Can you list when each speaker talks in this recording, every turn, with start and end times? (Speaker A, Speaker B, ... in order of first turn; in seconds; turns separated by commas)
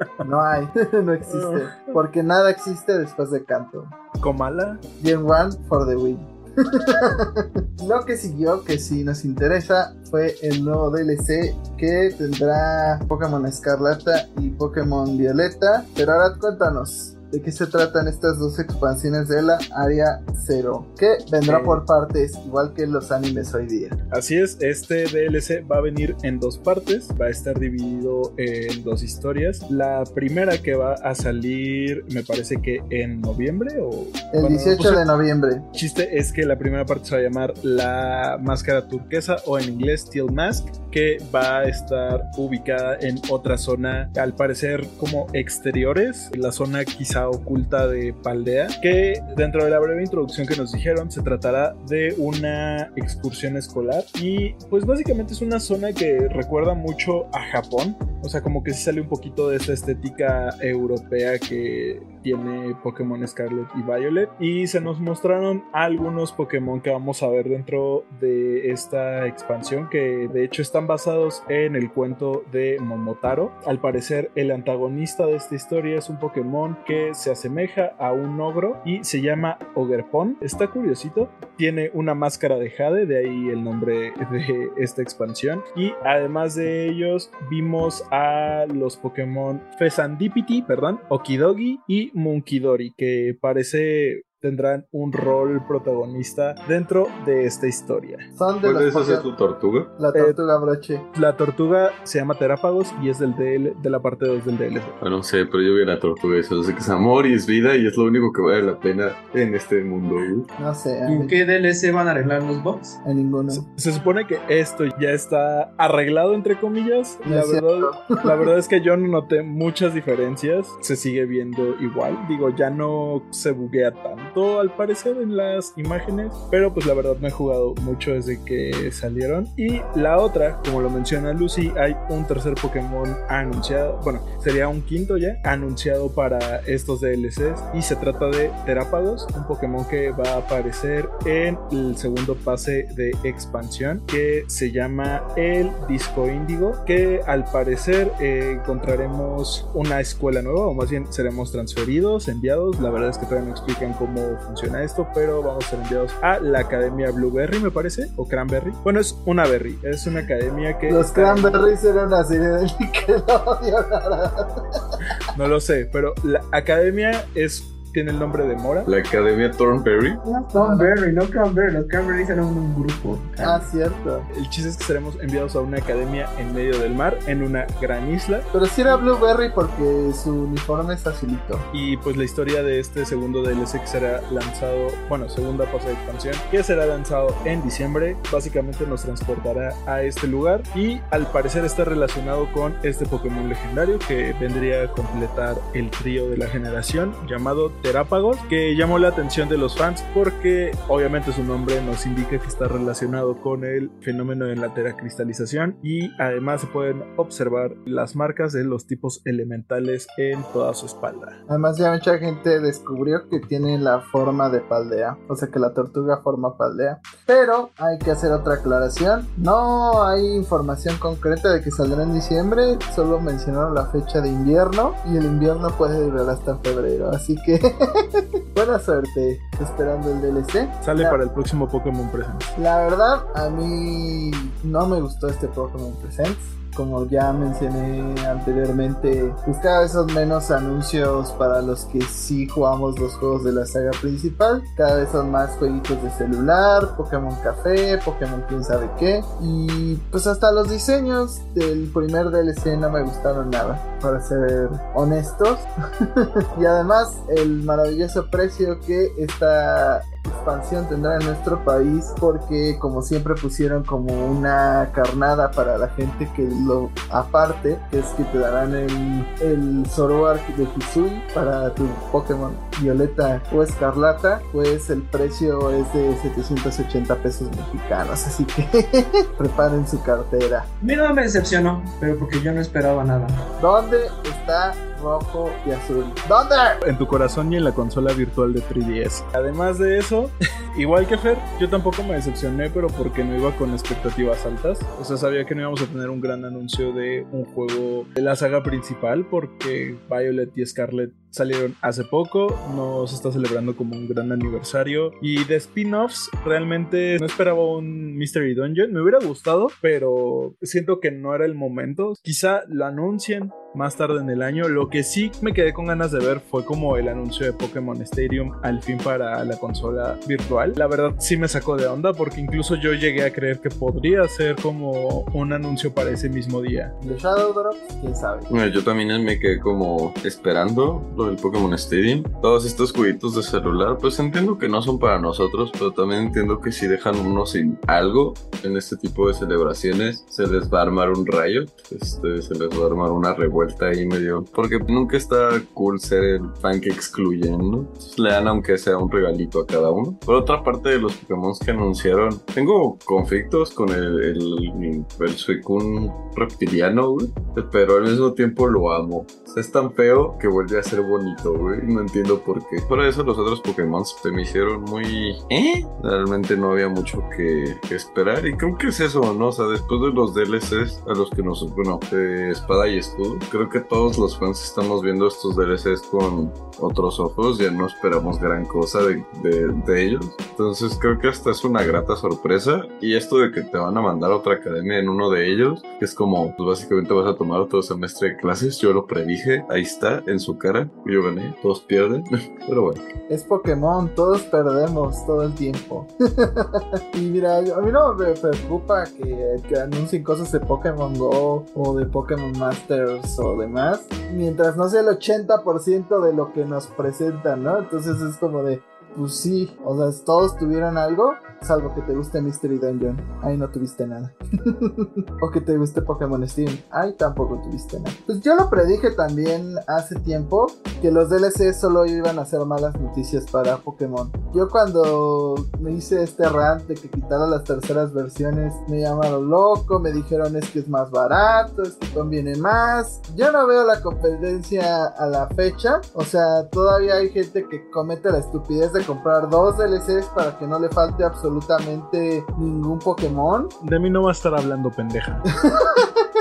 Speaker A: 0.2-4.0, Speaker B: 1.3-2.0, Speaker B: 4.2-4.8, Speaker A: 5.0-24.0, Speaker B: 21.5-21.8, Speaker B: 24.1-35.0, Speaker A: 34.3-35.6, Speaker B: 35.7-98.3, Speaker A: 98.4-99.3, Speaker C: 98.6-99.9, Speaker A: 100.0-101.1, Speaker B: 101.1-105.0, Speaker C: 105.0-110.5, Speaker A: 110.6-111.4, Speaker D: 111.0-113.0, Speaker A: 113.0-113.7, Speaker B: 113.5-161.8, Speaker A: 117.2-118.3, Speaker A: 160.9-164.5, Speaker B: 165.3-168.9, Speaker C: 168.8-170.2, Speaker D: 170.2-173.7, Speaker A: 170.3-170.9, Speaker A: 173.4-174.3, Speaker B: 174.3-179.1, Speaker A: 178.5-181.7, Speaker B: 181.7-211.4, Speaker A: 211.5-227.6, Speaker A: 228.6-231.2, Speaker B: 230.8-232.6, Speaker A: 232.6-255.7, Speaker A: 256.6-280.7, Speaker D: 280.8-283.5, Speaker A: 283.6-286.8, Speaker B: 286.8-326.9, Speaker A: 327.0-328.5, Speaker C: 328.5-393.0, Speaker A: 393.3-443.7, Speaker B: 443.8-445.4, Speaker A: 445.6-446.1